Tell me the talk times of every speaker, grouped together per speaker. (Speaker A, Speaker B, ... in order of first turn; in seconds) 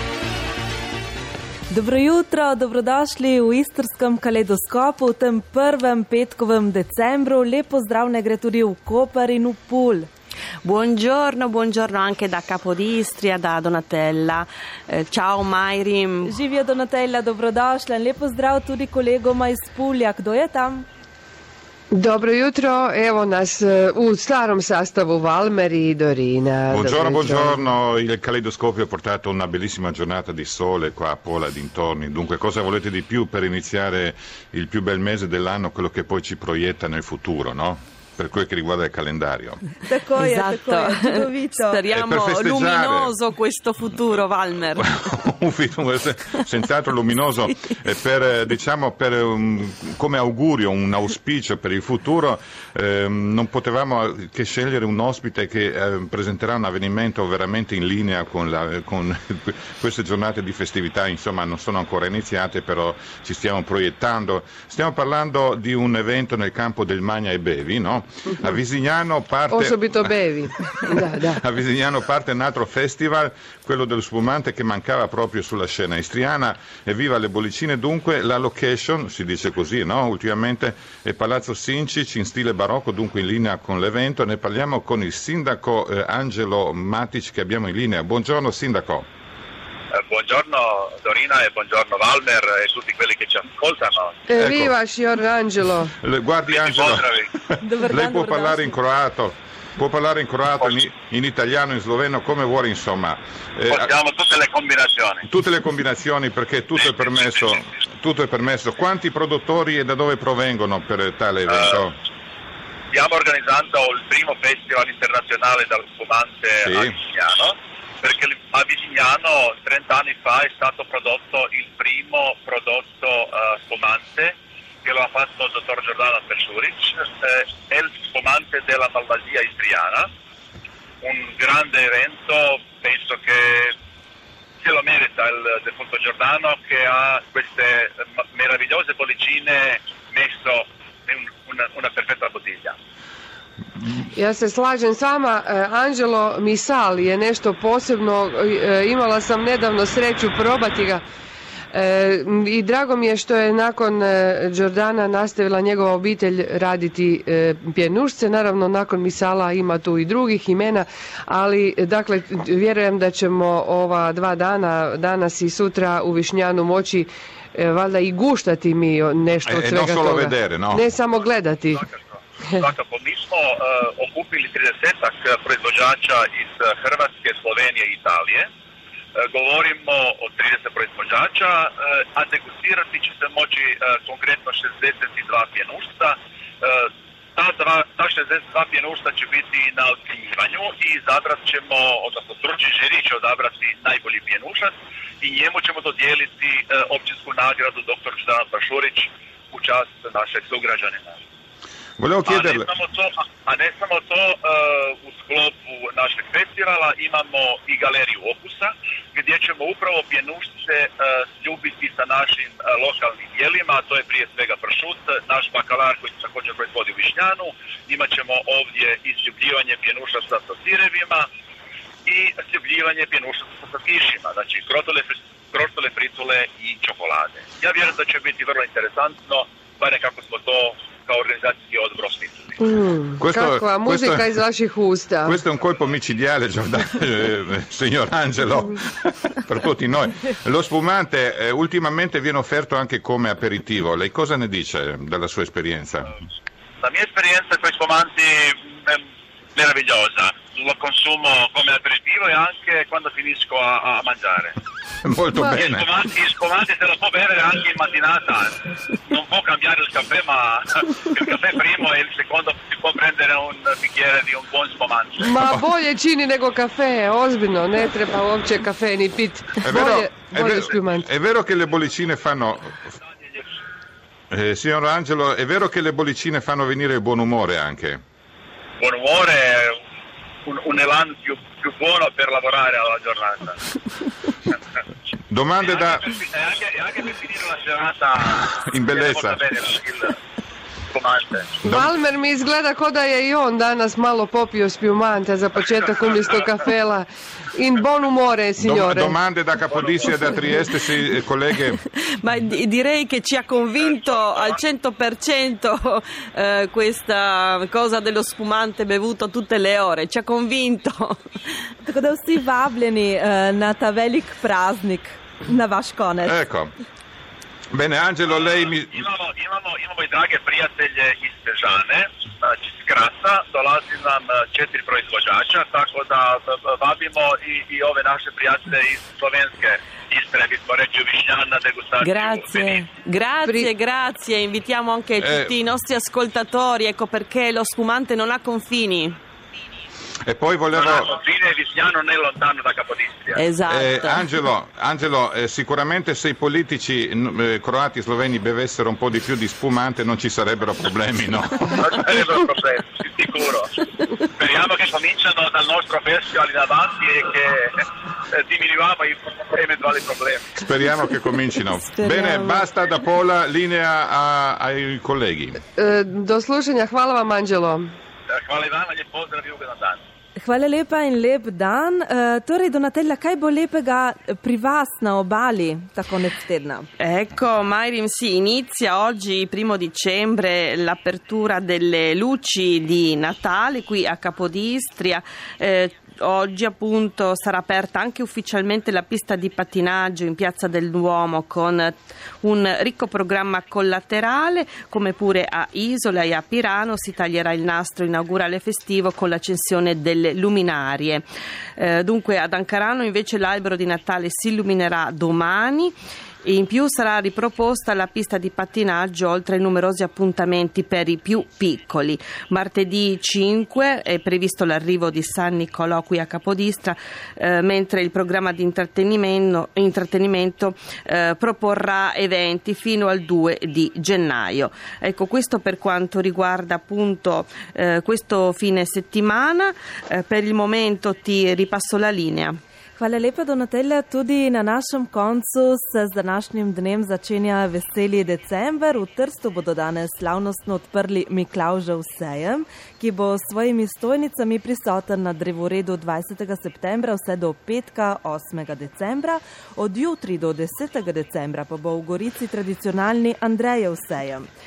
Speaker A: 1.7-10.1, 16.2-20.9, 39.8-41.8, 97.6-98.8, 311.8-316.4, 370.4-376.9, 433.0-454.5
Speaker B: 10.6-16.3, 40.2-44.9, 301.8-311.4, 332.0-339.2, 343.3-344.2, 362.0-362.6, 377.0-401.2, 401.8-405.9, 406.4-432.6
Speaker C: 21.9-27.6, 69.5-71.4, 94.3-95.9, 144.0-151.0, 151.7-171.8, 232.6-235.4, 265.2-271.1, 291.6-299.1, 365.8-367.9
Speaker D: 26.7-39.6, 41.9-43.1, 44.8-70.1, 70.7-89.1, 94.3-94.7, 95.9-103.9, 105.2-112.0, 116.6-117.0, 169.4-170.8, 202.0-202.7, 233.2-234.3, 235.2-246.1, 255.0-255.9, 269.6-272.9, 274.3-278.0, 285.3-286.0, 288.4-289.4, 291.6-291.9, 298.6-301.8, 316.2-316.7, 317.7-319.0, 335.2-335.5, 340.2-341.1, 343.7-351.8, 360.6-365.6
Speaker E: 89.9-94.2, 96.5-97.3, 103.7-105.2, 106.8-107.5, 111.5-111.8, 112.9-130.1, 131.0-133.7, 134.6-142.7, 171.7-178.5, 179.2-201.2, 202.3-221.3, 222.1-232.5, 246.8-249.0, 249.6-254.6, 255.5-258.6, 259.1-265.3, 278.8-279.8, 280.4-283.6, 285.7-290.1, 290.9-291.6, 296.1-296.5, 299.7-300.1, 303.8-304.6, 318.3-332.8, 340.7-343.4, 351.8-353.7, 354.4-360.6, 368.3-370.0